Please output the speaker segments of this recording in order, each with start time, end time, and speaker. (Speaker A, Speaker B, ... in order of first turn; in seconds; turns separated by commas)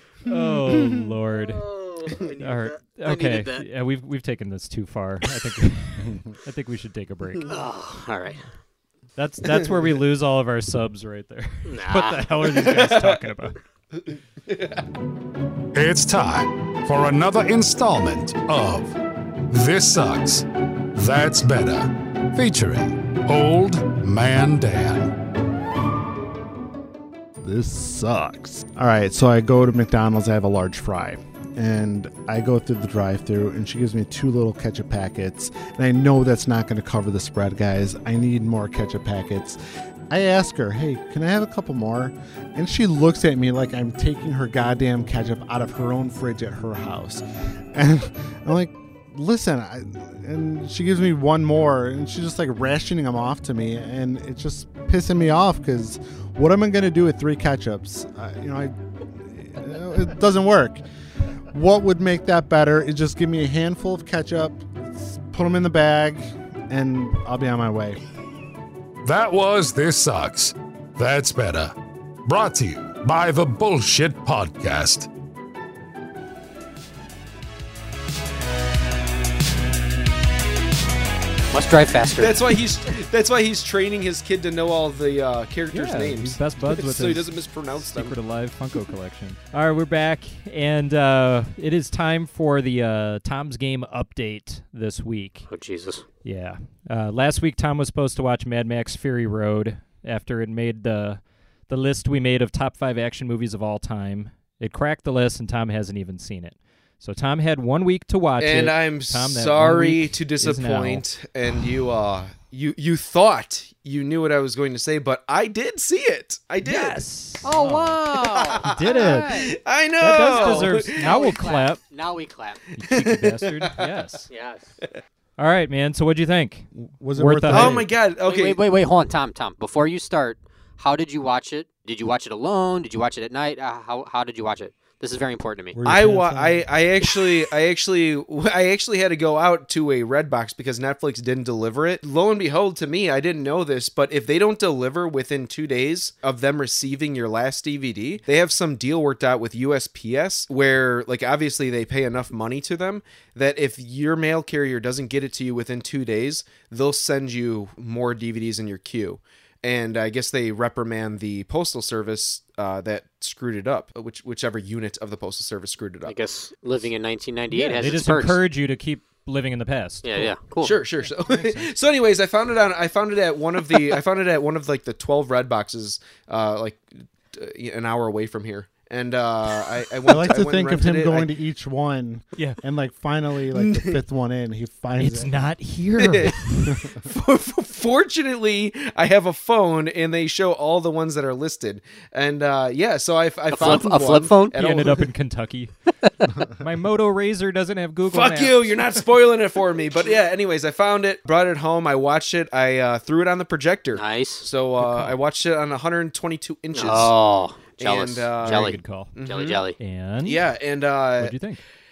Speaker A: 0.2-7.5, Speaker B: 1.6-3.6, Speaker B: 7.5-8.5, Speaker A: 9.2-13.6, Speaker B: 11.7-12.3, Speaker C: 12.6-13.2, Speaker C: 14.0-14.8, Speaker D: 15.7-19.0, Speaker D: 19.5-25.1, Speaker E: 27.4-39.6, Speaker E: 40.1-60.8, Speaker E: 61.5-68.0, Speaker D: 69.0-75.1, Speaker B: 81.5-82.4, Speaker C: 82.2-88.2, Speaker A: 85.7-95.5, Speaker B: 95.5-96.0, Speaker A: 96.2-111.0, Speaker C: 108.4-117.0, Speaker A: 116.6-118.0, Speaker B: 117.4-119.5, Speaker C: 118.1-121.1, Speaker A: 118.6-121.8, Speaker B: 120.2-122.6, Speaker A: 122.8-124.3, Speaker C: 122.9-123.7, Speaker B: 124.3-124.7, Speaker A: 125.4-127.8, Speaker E: 126.8-127.9, Speaker C: 127.5-128.6, Speaker B: 128.2-135.8, Speaker E: 135.8-136.7, Speaker C: 135.8-166.1, Speaker B: 166.1-168.4, Speaker A: 167.5-170.3, Speaker B: 170.0-170.8, Speaker C: 170.6-181.3, Speaker A: 171.3-171.6, Speaker E: 180.1-185.4, Speaker C: 183.6-184.0, Speaker A: 185.0-186.9, Speaker C: 186.0-195.1, Speaker B: 193.5-194.6, Speaker A: 194.5-195.7, Speaker A: 196.5-198.7, Speaker C: 198.1-207.1, Speaker B: 203.9-204.5, Speaker A: 204.8-205.2, Speaker B: 206.7-209.8, Speaker C: 207.8-209.6, Speaker A: 208.4-209.2, Speaker A: 209.8-210.5, Speaker C: 210.2-211.3, Speaker A: 211.2-211.6